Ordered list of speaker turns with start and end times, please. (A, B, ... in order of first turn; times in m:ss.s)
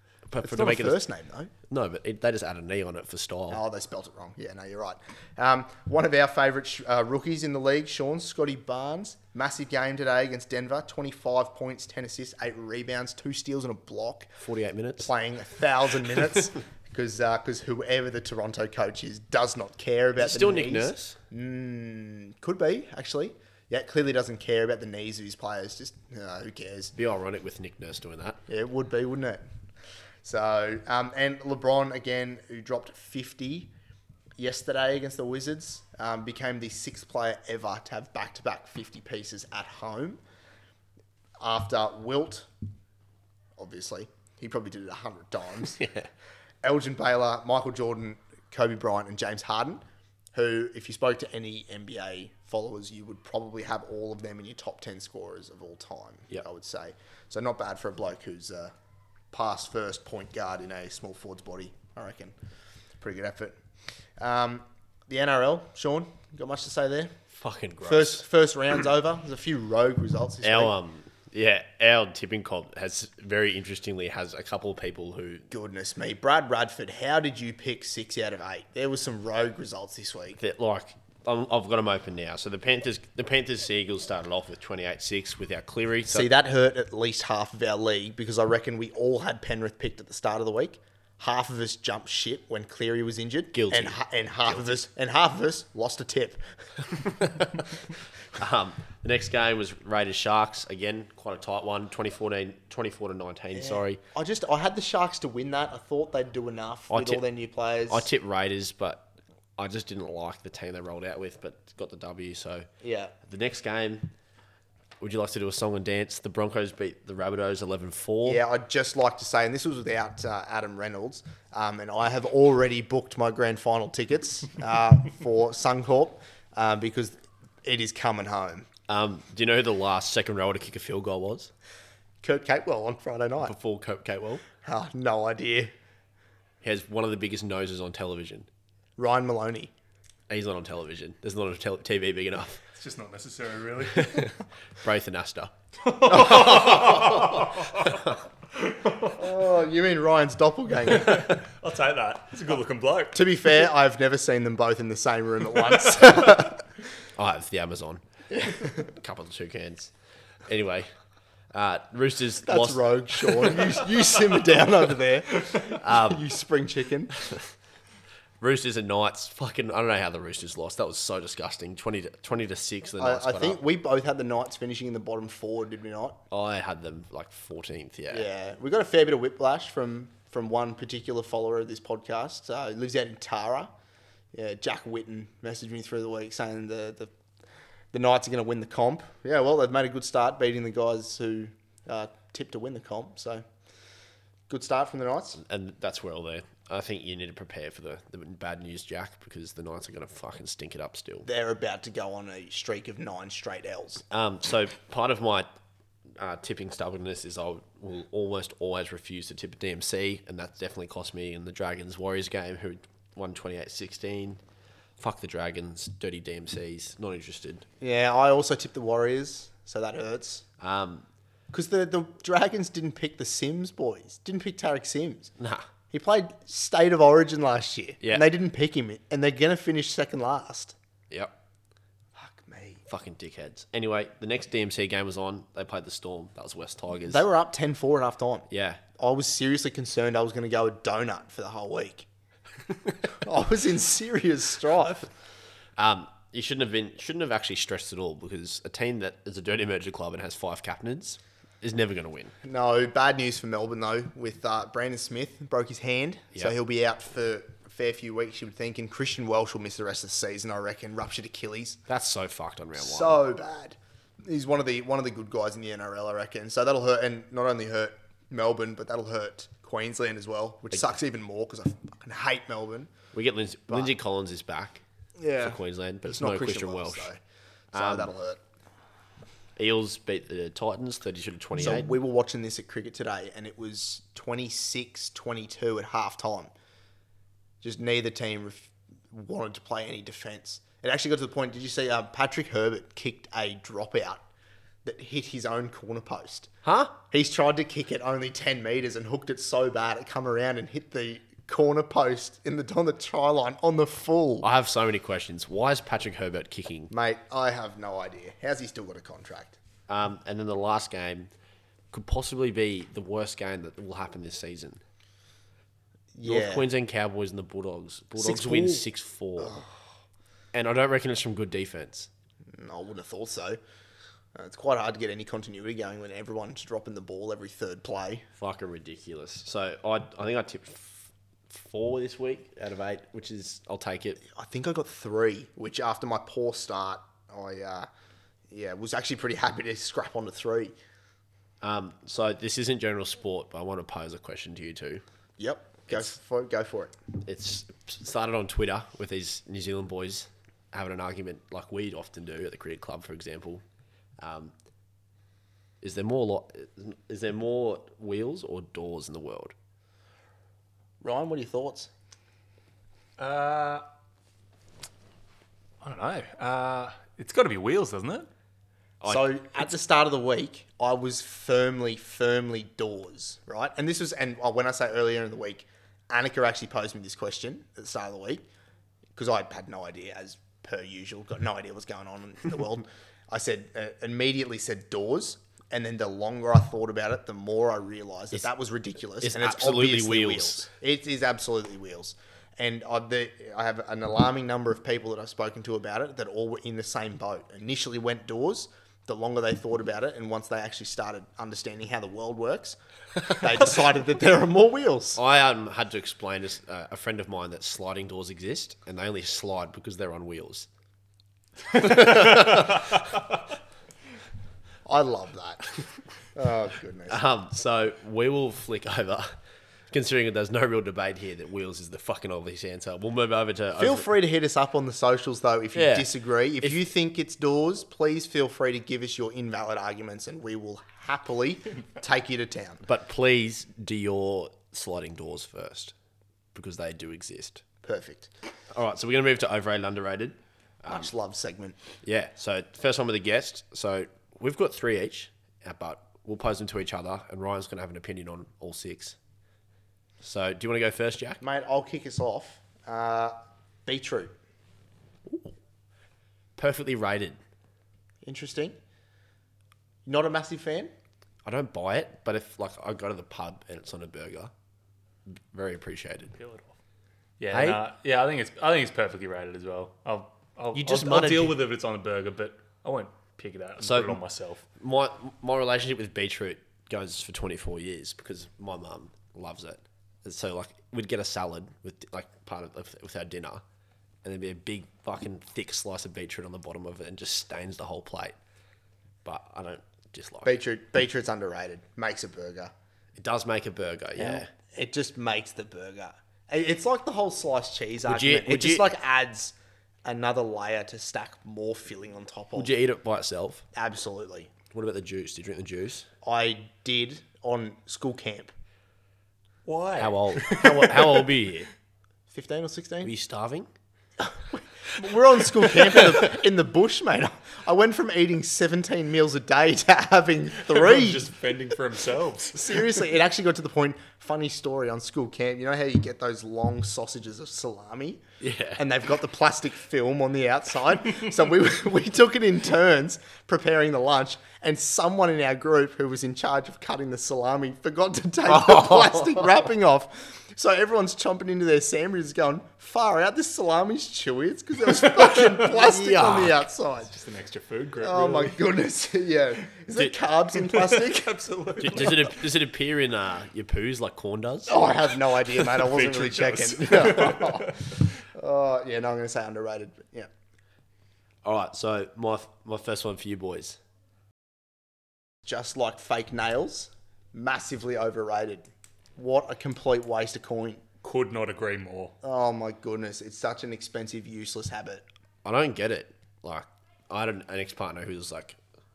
0:00.3-0:01.0 A
0:00.4-0:01.5 B
0:01.7-0:03.6 A
0:03.5-0:14.3 B
0:14.4-0:15.1 A
0:15.0-0:26.9 B
0:20.2-0:21.2 A
0:27.0-0:28.4 A
0:28.5-0:29.4 B
0:30.2-0:33.7 B
0:34.4-0:40.2 B
0:41.4-0:42.5 B
0:43.6-0:45.8 B
0:45.8-0:46.1 A
0:46.6-0:49.8 B
0:50.3-0:58.7 B
0:59.3-1:02.3 B
1:03.0-1:03.6 B
1:04.2-1:07.2 B
1:07.3-1:08.2 A
1:07.8-1:10.7 B
1:10.4-1:15.4 A
1:15.5-1:20.4 B
1:20.4-1:26.3 A
1:26.0-1:36.4 B
1:33.5-1:34.0 A
1:37.0-1:37.6 A
1:38.3-1:44.0 A
1:43.5-1:48.1 B
1:46.9-1:47.2 A
1:47.9-1:52.7 A
1:52.8-1:53.1 B
1:53.2-1:54.1 A
1:55.0-1:58.4 A
1:58.2-2:08.7 B
2:08.9-2:11.5 A
2:12.2-2:13.5 B
2:13.4-2:14.4 A
2:14.6-2:15.7 B
2:16.6-2:18.5 A
2:19.0-2:19.7 B
2:20.3-2:22.6 A
2:22.7-2:24.3 C
2:23.9-2:25.5 A
2:25.8-2:29.2 C
2:26.0-2:28.1 A
2:26.3-2:26.8 B
2:29.1-2:31.4 B
2:30.9-2:33.3 C
2:33.1-2:36.6 B
2:37.2-2:39.9 A
2:38.3-2:38.8 B
2:40.5-2:40.9 A
2:41.5-2:43.7 A
2:42.4-2:47.1 B
2:45.7-2:46.2 A
2:47.1-2:47.5 A
2:48.4-2:53.6 A
2:53.0-2:56.2 B
2:56.3-2:58.2 A
2:58.1-3:03.7 B
3:04.3-3:07.1 B
3:07.9-3:13.4 B
3:14.5-3:15.4 B
3:15.4-3:21.3 A
3:21.2-3:24.0 B
3:24.1-3:25.5 A
3:26.2-3:34.4 A
3:35.0-3:37.6 A
3:37.8-3:40.4 B
3:40.6-3:41.1 A
3:41.5-3:45.3 B
3:45.4-3:45.7 A
3:45.9-3:50.8 B
3:48.0-3:48.2 A
3:52.1-3:52.8 B
3:52.9-3:57.2 A
3:57.1-4:02.1 B
3:58.5-3:58.8 A
4:03.2-4:05.1 B
4:05.8-4:12.3 A
4:12.4-4:21.8 B
4:21.9-4:23.2 A
4:22.8-4:32.9 B
4:33.1-4:34.8 A
4:35.2-4:37.2 B
4:35.4-4:37.1 A
4:37.7-4:38.4 B
4:37.7-4:38.1 A
4:39.6-4:41.9 A
4:41.6-4:46.5 B
4:47.6-4:54.2 B
4:54.8-4:56.5 B
4:56.6-4:56.9 A
4:57.0-5:04.5 B
5:04.4-5:06.9 A
5:06.9-5:09.6 B
5:09.9-5:11.3 A
5:11.9-5:14.8 A
5:16.1-5:16.7 B
5:16.2-5:19.6 A
5:18.2-5:18.8 B
5:19.4-5:19.7 B
5:20.5-5:22.1 A
5:22.5-5:23.6 B
5:24.3-5:28.2 B
5:28.4-5:34.2 A
5:34.3-5:37.9 B
5:38.5-5:40.7 B
5:41.6-5:45.0 A
5:45.4-5:46.9 B
5:47.2-5:53.6 A
5:54.2-5:54.5 A
5:55.8-5:59.5 A
6:01.0-6:01.9 B
6:03.2-6:03.8 C
6:05.8-6:08.3 C
6:09.0-6:09.7 A
6:09.0-6:18.4 B
6:19.1-6:45.2 B
6:29.2-6:30.7 A
6:45.2-6:50.7 A
6:51.7-6:53.0 A
6:54.8-6:55.8 B
6:56.3-6:57.2 B
6:57.1-6:59.3 A
6:59.9-7:04.1 A
7:03.8-7:12.8 B
7:05.7-7:06.8 A
7:12.8-7:15.9 A
7:16.5-7:17.6 A
7:17.8-7:18.3 B
7:18.7-7:21.1 A
7:20.9-7:21.8 B
7:22.0-7:29.2 A
7:30.2-7:31.4 A
7:31.4-7:34.3 B
7:35.2-7:35.5 A
7:36.6-7:37.4 A
7:38.2-7:38.8 B
7:40.0-7:40.9 B
7:41.4-7:44.5 A
7:45.3-7:46.3 A
7:46.3-7:46.8 C
7:47.4-7:54.6 C
7:47.5-7:47.8 A
7:50.7-7:51.6 A
7:53.8-7:54.2 A
7:54.8-8:03.6 A
8:04.2-8:08.3 A
8:09.2-8:10.5 A
8:10.4-8:12.7 B
8:13.2-8:14.5 A
8:14.2-8:19.5 B
8:18.0-8:18.9 A
8:20.0-8:22.7 B
8:22.5-8:23.6 A
8:23.7-8:24.5 B
8:24.7-8:26.1 A
8:26.2-8:28.5 B
8:29.6-8:31.1 C
8:30.0-8:31.7 A
8:32.3-8:33.1 B
8:33.0-8:33.7 A
8:34.3-8:41.3 B
8:40.7-8:43.0 C
8:42.5-8:48.2 B
8:48.4-8:48.8 A
8:48.8-9:07.1 B
8:58.5-8:59.4 A
9:05.5-9:06.6 A
9:07.0-9:08.6 C
9:08.0-9:11.4 B
9:10.7-9:12.4 C
9:11.8-9:14.8 A
9:14.7-9:20.3 B
9:15.6-9:17.9 C
9:21.4-9:23.8 A
9:25.4-9:30.8 B
9:31.0-9:32.1 C
9:32.2-9:35.0 B
9:35.4-9:38.6 A